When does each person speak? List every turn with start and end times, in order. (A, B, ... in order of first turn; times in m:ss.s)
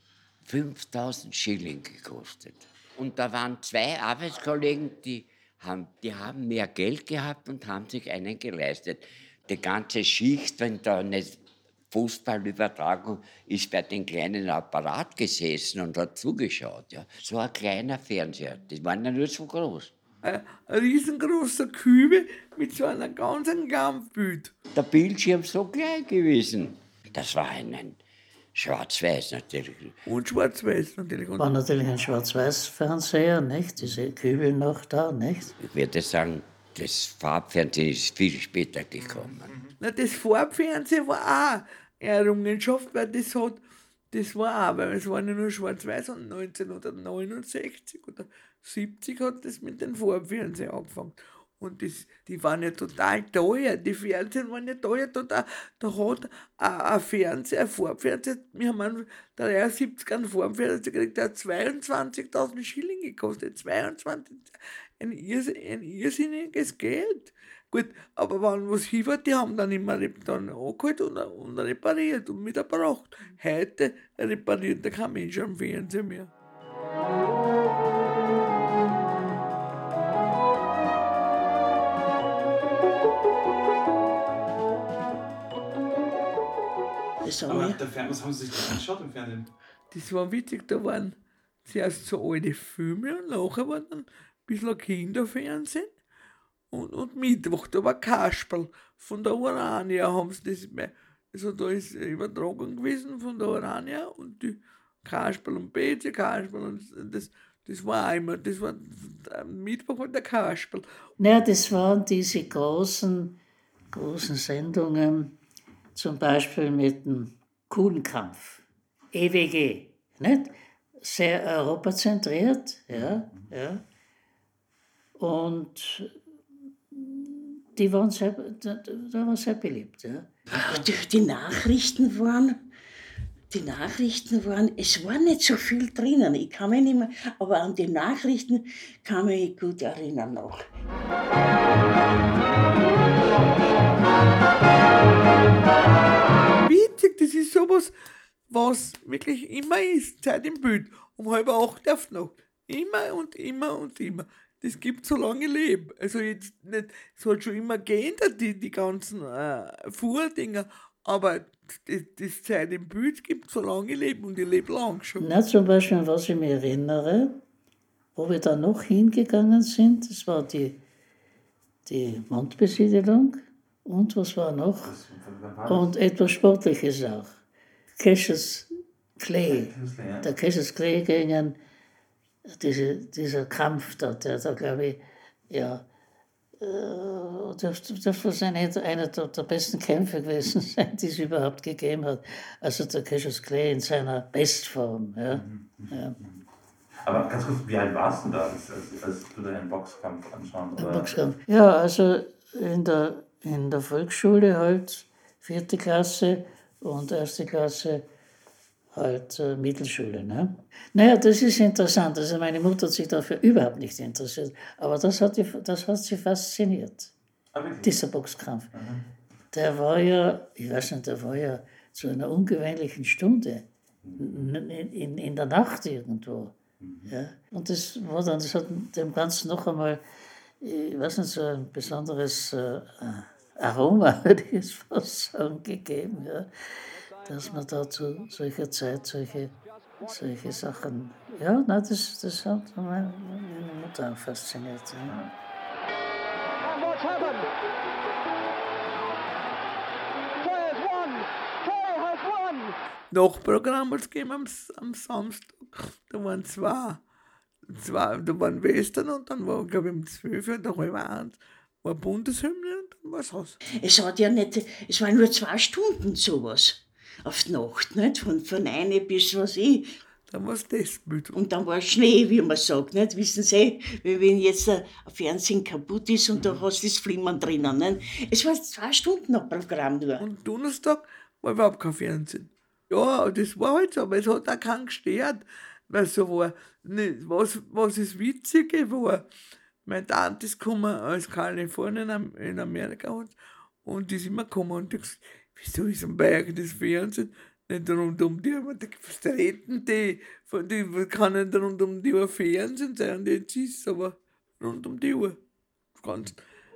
0:00.4-0:11.4 A
0:11.9-0:19.9 A
0:20.2-0:24.5 B
0:24.7-0:28.0 A
0:28.6-0:29.9 A
0:30.1-0:31.5 B
0:31.4-0:35.6 C
0:35.6-0:39.5 A
0:39.8-0:43.6 B
0:44.1-1:04.5 B
1:05.0-1:16.3 B
1:27.2-1:27.8 D
1:27.5-1:29.5 E
1:29.9-1:35.9 B
1:36.7-1:50.9 B
1:51.2-1:53.4 C
1:53.9-1:55.3 C
1:55.9-2:03.8 C
2:02.9-2:03.2 E
2:05.2-2:06.1 C
2:06.9-2:10.3 C
2:10.6-2:12.6 D
2:13.5-2:20.6 D
2:26.6-2:27.9 B
2:28.5-2:45.2 B
2:45.2-2:47.3 C
2:48.1-2:50.8 C
2:51.9-2:54.9 C
2:54.8-2:55.9 E
2:55.7-2:57.4 C
2:58.0-2:58.7 C
2:59.2-3:01.6 C
2:59.5-3:00.3 E
3:02.6-3:05.8 C
3:06.6-3:16.2 C
3:15.3-3:16.4 E
3:17.0-3:21.1 E
3:20.8-3:28.0 C
3:28.9-3:37.1 C
3:37.5-3:38.0 E
3:37.8-3:38.7 C
3:38.7-3:39.0 E
3:39.5-3:43.6 C
3:44.0-3:44.3 E
3:44.2-3:46.6 C
3:46.8-3:47.1 E
3:47.1-3:50.0 C
3:50.6-3:56.5 C
3:57.2-3:59.5 C
4:00.0-4:05.2 C
4:05.1-4:05.3 E
4:13.1-4:17.0 B
4:17.7-4:23.6 B
4:23.8-4:29.9 D
4:30.3-4:31.4 B
4:31.3-4:40.2 D
4:40.2-4:49.2 B
4:49.9-5:05.4 B
5:06.0-5:06.4 B